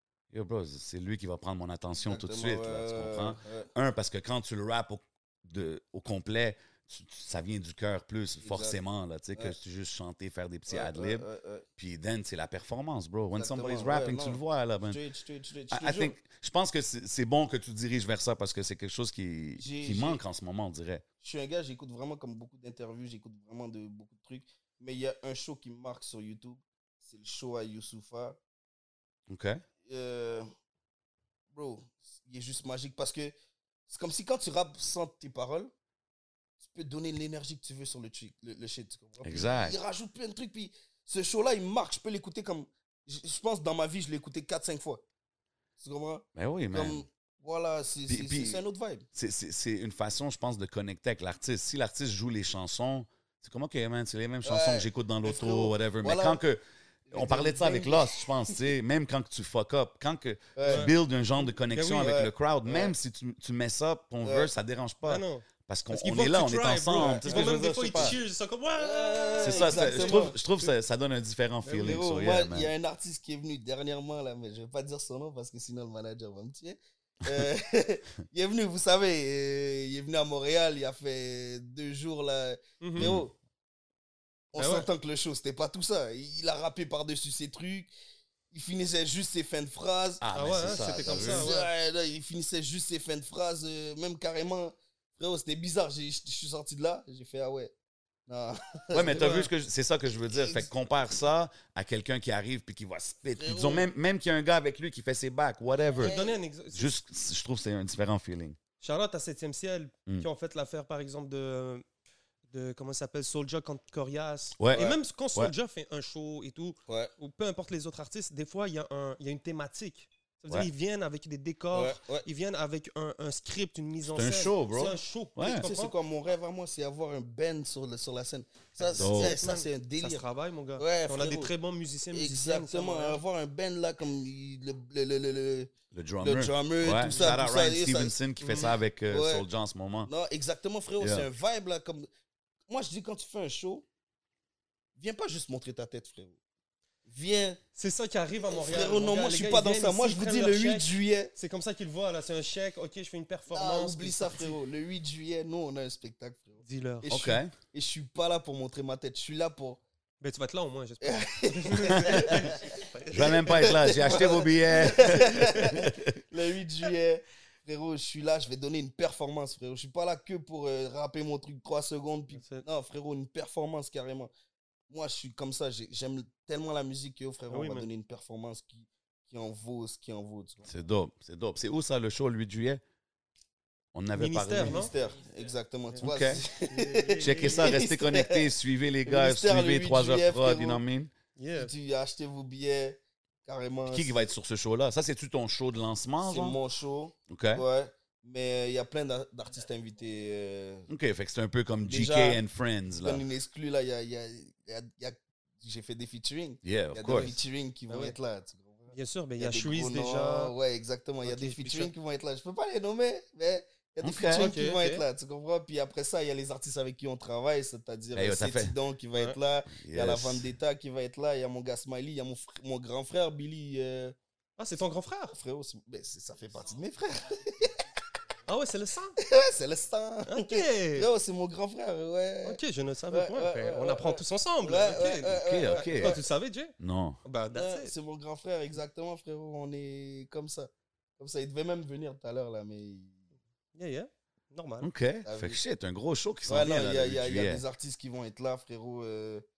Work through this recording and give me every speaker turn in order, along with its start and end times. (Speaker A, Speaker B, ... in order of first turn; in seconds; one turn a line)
Speaker A: 0.3-11.3
Speaker B: 2.0-3.7
Speaker B: 8.4-8.8
Speaker B: 10.7-11.7
Speaker A: 11.8-15.0
Speaker B: 13.3-16.2
Speaker A: 15.7-21.1
Speaker B: 19.6-20.2
Speaker B: 21.2-28.4
Speaker A: 29.3-29.6
Speaker B: 29.9-30.5
Speaker B: 31.5-33.3
Speaker B: 33.9-35.7
Speaker B: 36.6-45.0
Speaker A: 39.2-39.8
Speaker B: 45.8-49.1
Speaker A: 46.4-47.0
Speaker A: 48.1-48.6
Speaker A: 49.1-68.2
Speaker B: 54.4-56.4
Speaker B: 57.1-58.7
Speaker B: 60.6-61.0
Speaker C: 60.7-60.9
Speaker C: 61.7-62.1
Speaker B: 61.9-63.0
Speaker B: 64.2-64.5
Speaker C: 65.0-70.7
Speaker B: 66.9-68.2
Speaker B: 68.8-70.4
Speaker A: 69.4-72.7
Speaker C: 71.7-72.0
Speaker B: 71.7-83.3
Speaker C: 82.8-83.1
Speaker A: 83.0-83.3
Speaker B: 84.5-87.9
Speaker C: 84.6-84.9
Speaker B: 88.5-97.7
Speaker A: 90.2-91.5
Speaker C: 90.3-91.7
Speaker B: 98.3-99.5
Speaker A: 98.9-106.2
Speaker C: 99.2-99.4
Speaker B: 100.3-100.7
Speaker B: 103.4-103.9
Speaker B: 106.0-106.4
Speaker C: 106.0-106.9
Speaker A: 106.7-108.6
Speaker C: 108.8-111.8
Speaker C: 112.5-125.9
Speaker A: 114.6-115.5
Speaker B: 114.7-115.0
Speaker B: 116.9-117.1
Speaker B: 121.7-122.3
Speaker A: 124.1-125.7
Speaker B: 125.5-130.2
Speaker C: 128.8-133.2
Speaker A: 129.0-129.4
Speaker B: 130.8-131.5
Speaker B: 132.1-139.5
Speaker A: 135.9-140.1
Speaker C: 137.1-137.4
Speaker C: 138.4-138.7
Speaker B: 140.1-142.1
Speaker A: 141.0-141.3
Speaker B: 142.7-143.9
Speaker B: 145.0-146.4
Speaker B: 147.1-147.6
Speaker C: 147.8-154.6
Speaker B: 148.5-151.3
Speaker B: 153.5-159.8
Speaker C: 156.6-157.1
Speaker A: 157.1-157.5
Speaker C: 160.2-163.4
Speaker B: 161.0-174.3
Speaker A: 161.9-162.6
Speaker A: 163.1-166.2
Speaker C: 172.3-172.7
Speaker B: 174.9-180.7
Speaker C: 177.5-177.9
Speaker A: 180.7-182.8
Speaker A: 183.9-184.9
Speaker C: 184.2-184.9
Speaker B: 184.6-188.5
Speaker C: 185.9-187.8
Speaker A: 186.0-186.4
Speaker A: 187.2-191.1
Speaker B: 189.1-190.8
Speaker C: 191.4-191.7
Speaker B: 191.6-194.3
Speaker A: 193.9-196.6
Speaker B: 196.2-200.9
Speaker A: 197.3-197.6
Speaker A: 200.9-203.2
Speaker B: 201.8-202.4
Speaker B: 202.9-224.2
Speaker A: 206.6-207.4
Speaker C: 207.9-208.2
Speaker C: 208.9-210.5
Speaker C: 211.2-211.9
Speaker A: 214.0-214.5
Speaker C: 214.3-215.0
Speaker A: 218.2-218.8
Speaker A: 219.7-220.5
Speaker C: 224.6-225.3
Speaker B: 225.3-227.8
Speaker C: 228.5-229.2
Speaker B: 229.2-232.6
Speaker C: 230.3-231.1
Speaker C: 232.4-237.9
Speaker B: 233.1-236.2
Speaker A: 235.3-236.2
Speaker A: 236.8-237.2
Speaker B: 237.5-243.2
Speaker C: 243.8-244.9
Speaker A: 244.8-247.6
Speaker B: 245.2-245.6
Speaker B: 246.5-249.4